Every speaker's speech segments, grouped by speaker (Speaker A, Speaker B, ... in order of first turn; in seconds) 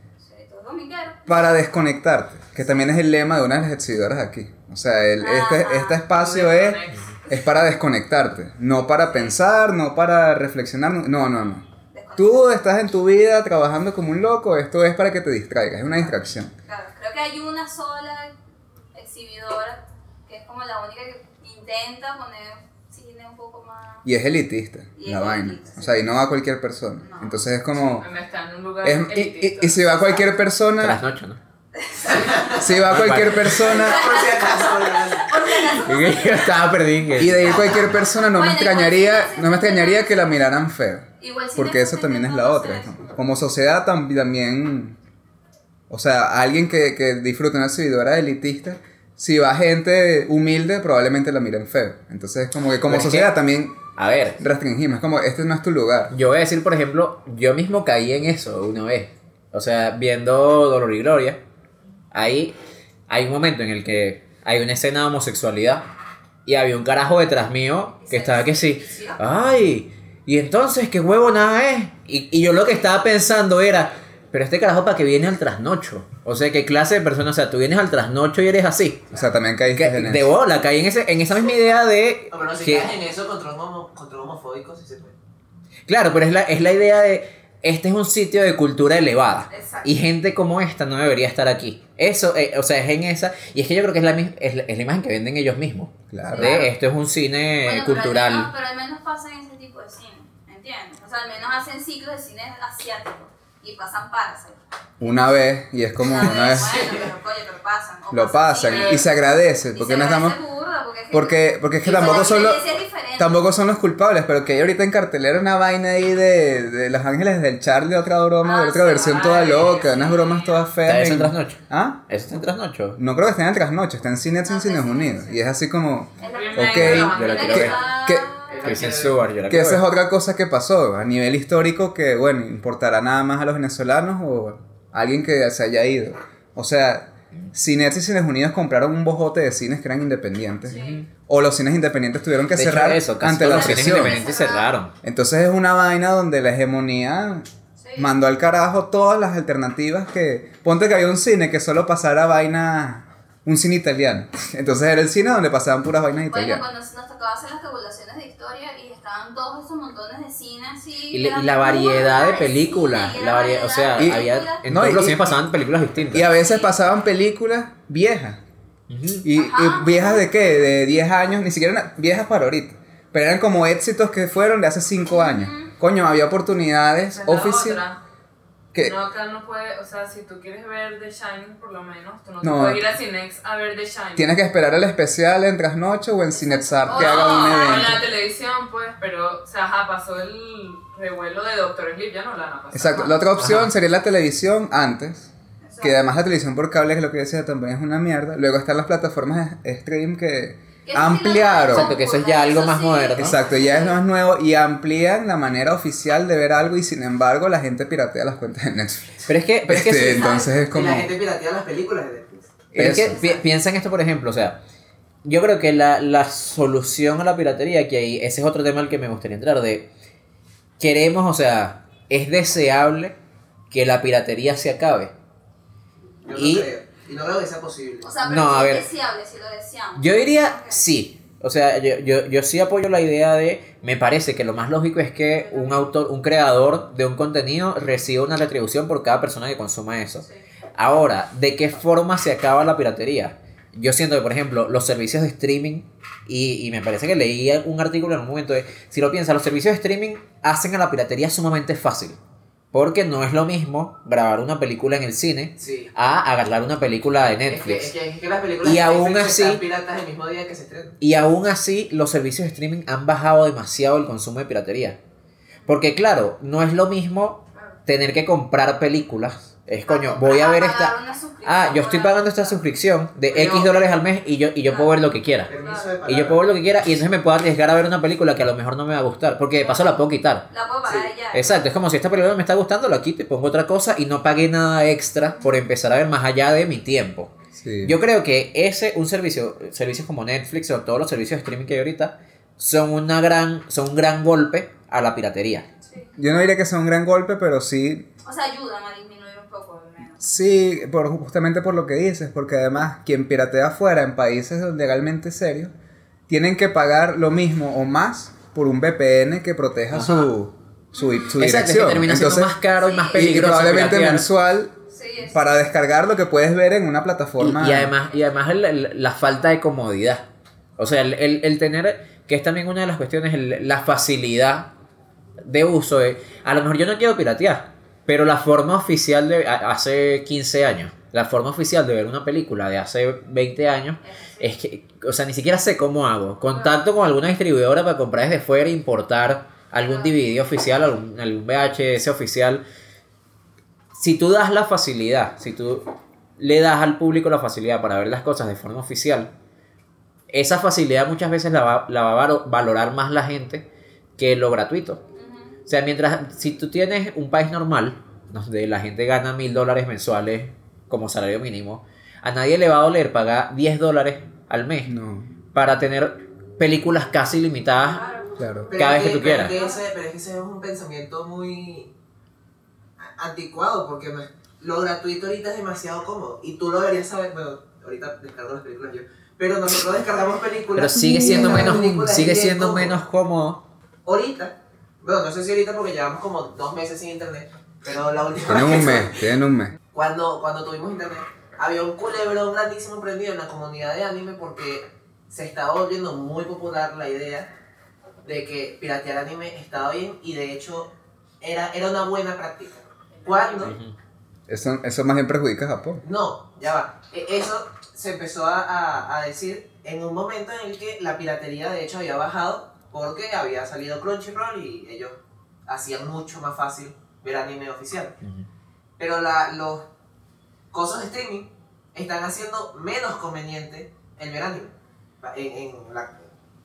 Speaker A: 0.2-1.3, 5.2-6.0, 11.9-12.6, 16.7-18.4, 18.9-24.1, 25.0-26.0, 27.0-27.4, 31.8-32.4, 33.7-36.5, 38.3-40.4, 41.2-43.1, 68.0-69.2, 89.5-89.9, 96.3-96.7, 97.6-105.2, 106.0-109.1, 109.7-113.5, 118.4-120.6, 124.5-125.4, 126.2-128.6, 140.7-141.0, 143.5-144.7, 147.8-148.1, 156.3-164.6, 166.3-166.7, 169.4-170.4, 175.1-175.7, 186.3-188.0, 195.6-196.1, 200.8-204.0, 210.1-210.6, 213.1-213.4, 228.0-230.8, 235.4-235.8, 269.9-272.6, 274.6-276.0, 279.6-279.9, 280.5-281.7, 298.2-300.2, 310.9-311.4, 312.8-313.2, 314.9-315.4, 334.0-334.6, 339.9-340.2, 355.2-355.6, 367.8-369.8
Speaker B: 1.3-11.6, 12.2-16.5, 24.0-28.1, 28.8-31.0, 32.6-34.1, 37.2-45.0, 45.9-53.8, 54.4-56.1, 79.1-80.3, 96.1-96.6, 105.0-106.9, 108.1-110.4, 111.1-112.6, 113.2-122.0, 123.0-128.3, 129.5-144.2, 145.0-156.6, 164.0-165.4, 166.1-168.4, 169.2-177.8, 182.4-182.9, 184.2-188.0, 192.7-201.9, 203.2-211.1, 212.8-213.2, 287.6-288.0, 296.2-298.1, 300.2-305.7, 306.3-312.6, 313.1-314.7, 315.3-317.9, 364.9-365.3, 368.4-368.8, 388.5-389.7, 404.5-406.0
Speaker C: 6.1-7.2, 28.0-30.0, 108.6-109.1, 119.2-119.5, 126.2-127.8, 128.5-129.1, 177.1-178.0, 178.8-184.3, 186.9-193.3
Speaker D: 30.8-31.4, 32.9-33.7, 35.7-37.7, 52.9-53.3, 54.0-54.4, 56.1-61.4, 62.1-62.5, 63.1-65.8, 66.5-79.1, 79.7-82.9, 85.9-98.5, 120.9-123.0, 126.8-127.8, 128.6-129.8, 140.7-141.1, 142.5-144.9, 161.1-166.3, 168.9-169.3, 193.4-193.7, 201.7-203.3, 209.3-210.4, 212.7-214.6, 215.2-219.9, 220.8-223.2, 223.7-225.1, 226.3-226.7, 228.2-228.8, 230.0-240.2, 240.8-252.2, 252.7-257.9, 258.6-259.6, 261.0-265.0, 265.7-270.9, 271.4-275.5, 276.1-280.5, 281.3-287.3, 287.9-295.7, 309.9-310.3, 311.4-314.3, 317.4-320.2, 320.8-324.7, 325.4-342.6, 343.9-349.3, 350.3-353.6, 354.2-355.0, 355.7-364.9, 365.5-368.0, 368.8-369.5, 380.8-383.6, 403.6-403.9, 418.2-418.5
Speaker E: 32.1-32.8, 33.6-35.6, 82.3-85.2, 106.2-107.1, 128.6-129.1, 210.5-212.6, 226.2-228.1, 255.6-255.9, 257.5-260.9, 273.3-273.7, 275.5-276.4, 368.7-371.9, 373.0-382.9, 384.1-389.3, 389.9-397.5, 398.2-400.9, 401.4-403.8, 406.0-418.1, 419.0-419.9, 420.7-426.3